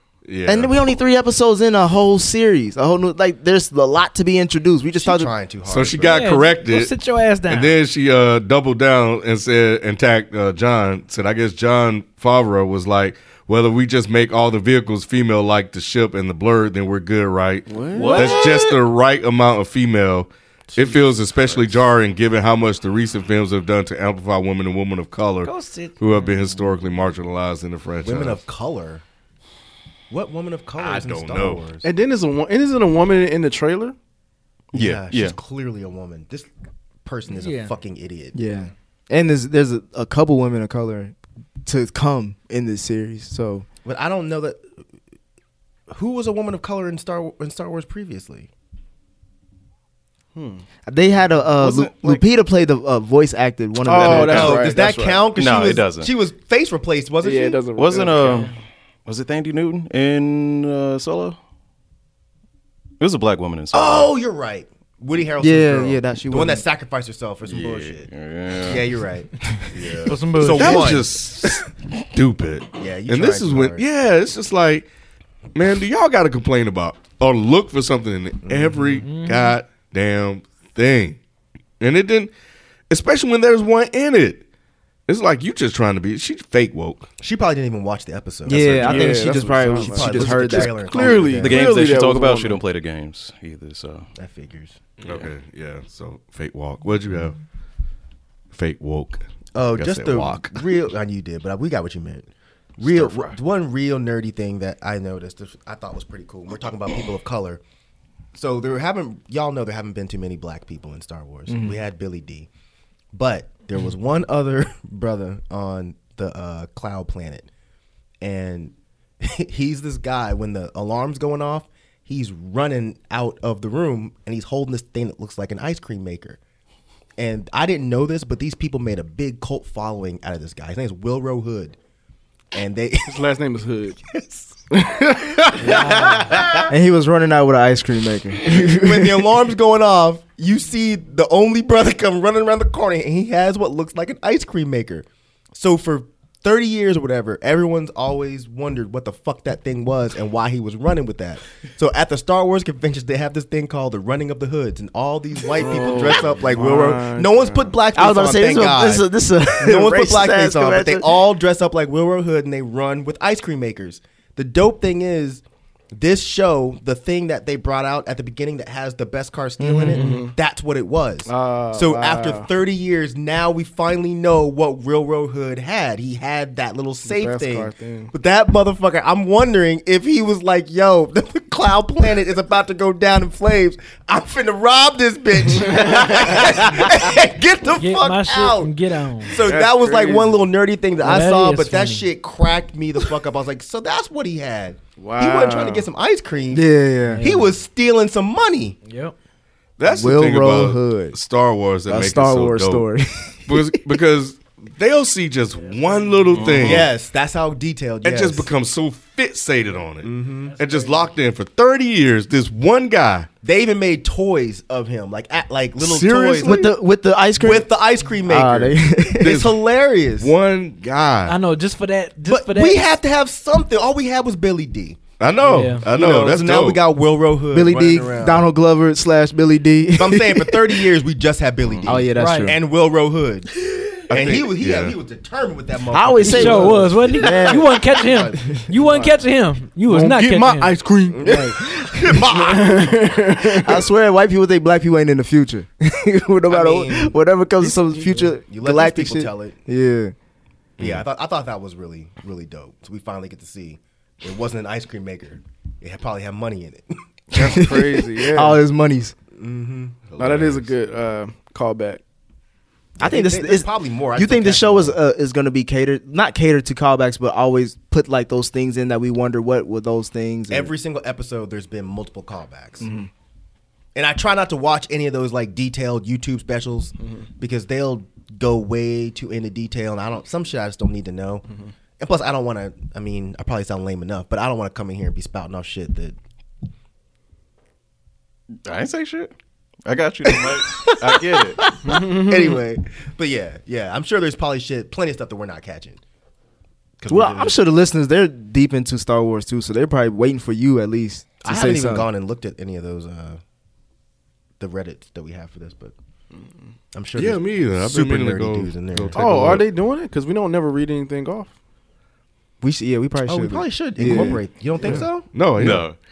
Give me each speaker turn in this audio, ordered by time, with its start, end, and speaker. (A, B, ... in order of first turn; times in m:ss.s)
0:00.2-0:00.7 A
0:00.5-0:05.3 B
0:05.0-0:06.2 C
0:05.7-0:06.9 A
0:06.0-0:07.8 D
0:07.4-0:28.4 A
0:17.7-0:18.4 E
0:17.9-0:18.8 F
0:25.4-0:26.3 D
0:28.0-0:29.0 C
0:30.1-0:31.9 C
0:30.8-0:31.6 A
0:31.8-0:34.0 E
0:34.7-0:35.4 F
0:34.7-0:36.5 C
0:37.0-0:38.4 C
0:37.3-0:37.7 D
0:38.3-0:43.7 B
0:43.8-0:44.6 C
0:45.9-0:48.5 C
0:50.4-0:50.6 E
0:50.9-0:54.7 B
0:51.6-0:52.2 F
0:53.8-0:55.2 E
0:54.0-0:57.6 C
0:55.4-0:56.1 F
0:57.2-0:58.5 E
0:57.8-0:58.5 F
0:59.1-1:01.4 F
1:03.0-1:04.2 F
1:03.7-1:08.1 C
1:05.4-1:06.6 B
1:07.5-1:09.0 F
1:08.6-1:09.3 C
1:09.7-1:10.2 F
1:10.0-1:11.0 D
1:10.3-1:11.2 C
1:10.6-1:14.9 A
1:12.8-1:13.8 C
1:15.5-1:21.2 A
1:18.4-1:19.0 C
1:19.0-1:19.6 D
1:21.8-1:22.3 A
1:22.9-1:24.4 A
1:25.1-1:27.1 A
1:27.2-1:31.6 C
1:28.5-1:30.9 B
1:28.8-1:32.6 E
1:31.4-1:34.1 F
1:34.2-1:34.8 C
1:35.0-1:37.4 A
1:38.5-1:39.2 A
1:39.5-1:42.3 C
1:39.8-1:40.7 A
1:42.8-1:43.4 F
1:42.8-1:47.6 C
1:48.3-1:52.5 C
1:51.5-1:51.8 B
1:53.1-1:57.5 C
1:58.2-2:06.4 C
2:07.2-2:11.8 C
2:12.5-2:13.2 C
2:13.1-2:14.0 E
2:14.7-2:16.1 E
2:15.6-2:16.5 C
2:15.6-2:16.3 D
2:16.7-2:19.4 B
2:18.5-2:45.4 C
2:35.6-2:37.8 E
2:38.0-2:41.2 B
2:46.0-3:16.7 C
2:49.6-2:50.1 B
2:49.9-2:50.3 D
2:50.0-2:50.3 E
2:51.3-2:52.5 E
2:57.0-2:58.1 E
3:05.7-3:06.5 E
3:07.8-3:09.4 D
3:09.4-3:10.5 E
3:11.0-3:12.1 D
3:15.0-3:15.9 E
3:16.5-3:17.2 B
3:17.0-3:17.6 D
3:17.2-3:18.8 C
3:18.8-3:19.2 D
3:19.8-3:22.9 A
3:19.8-3:21.2 B
3:21.9-3:24.0 B
3:23.5-3:26.9 A
3:25.5-3:26.6 D
3:26.3-3:26.9 F
3:26.5-3:28.5 C
3:28.0-3:33.3 A
3:30.0-3:30.5 C
3:30.4-3:31.2 D
3:33.4-3:36.8 C
3:35.8-3:37.7 B
3:35.9-3:36.5 A
3:37.4-3:40.3 C
3:38.2-3:39.4 B
3:39.2-3:39.6 A
3:40.2-3:41.4 A
3:41.3-3:42.9 D
3:42.3-3:45.0 C
3:45.2-3:46.8 A
3:45.4-3:45.9 D
3:45.9-3:48.5 C
3:47.5-3:50.9 B
3:50.0-3:53.5 C
3:51.7-3:52.1 F
3:51.9-3:52.6 B
3:52.1-3:52.6 D
3:54.1-3:55.0 A
3:54.1-3:58.4 C
3:55.9-3:57.8 B
3:56.2-4:01.5 D
3:58.8-3:59.1 E
3:59.9-4:03.9 E
4:01.1-4:03.2 C
4:03.4-4:10.1 B
4:06.5-4:07.2 C
4:07.6-4:08.3 E
4:08.5-4:09.6 C
4:10.8-4:17.0 C
4:17.3-4:18.6 E
4:17.4-4:19.2 B
4:19.3-4:20.0 C
4:20.1-4:20.7 A
4:20.2-4:22.0 E
4:23.0-4:25.0 C
4:23.0-4:30.7 B
4:30.5-4:33.0 C
4:32.8-4:33.1 B
4:34.0-4:41.5 C
4:42.0-4:46.2 C
4:48.6-4:49.3 F
4:49.8-4:51.6 F
4:51.9-4:52.6 E
4:51.9-4:56.0 C
4:57.0-4:57.6 C
4:57.1-5:02.1 B
5:01.4-5:03.4 C
5:04.6-5:05.9 C
5:06.9-5:09.2 C
5:07.2-5:09.7 A
5:09.2-5:11.5 E
5:12.6-5:14.4 B
5:13.2-5:15.3 C
5:14.8-5:15.9 A
5:15.6-5:16.0 F